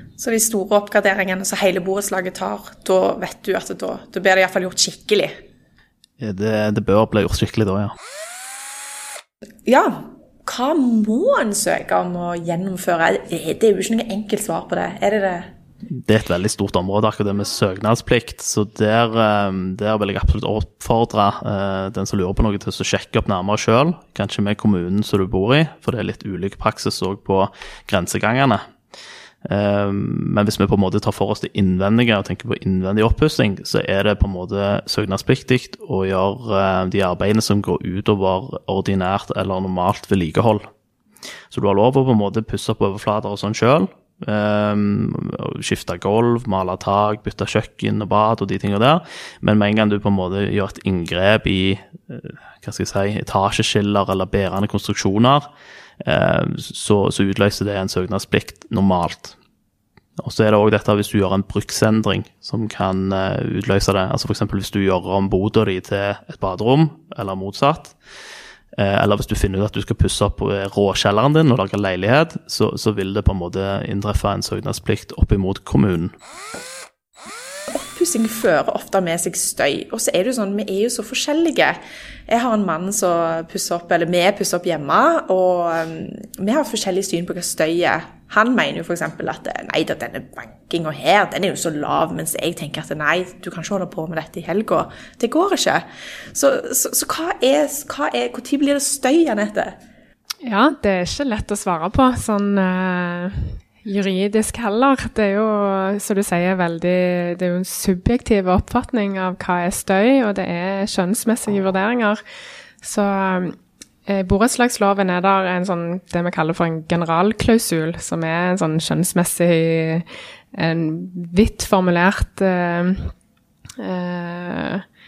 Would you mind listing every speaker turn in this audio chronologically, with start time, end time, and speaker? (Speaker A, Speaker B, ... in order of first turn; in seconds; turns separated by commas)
Speaker A: 0.2-5.3, Speaker B: 6.2-7.9, Speaker A: 9.7-9.9, Speaker A: 10.4-15.5, Speaker B: 16.0-28.6, Speaker B: 29.4-40.7, Speaker B: 41.5-55.5, Speaker B: 56.0-59.3, Speaker B: 60.2-68.0, Speaker B: 68.8-76.1, Speaker A: 77.7-95.8, Speaker A: 96.3-99.7, Speaker C: 100.4-112.2, Speaker C: 112.8-123.1, Speaker C: 123.8-124.8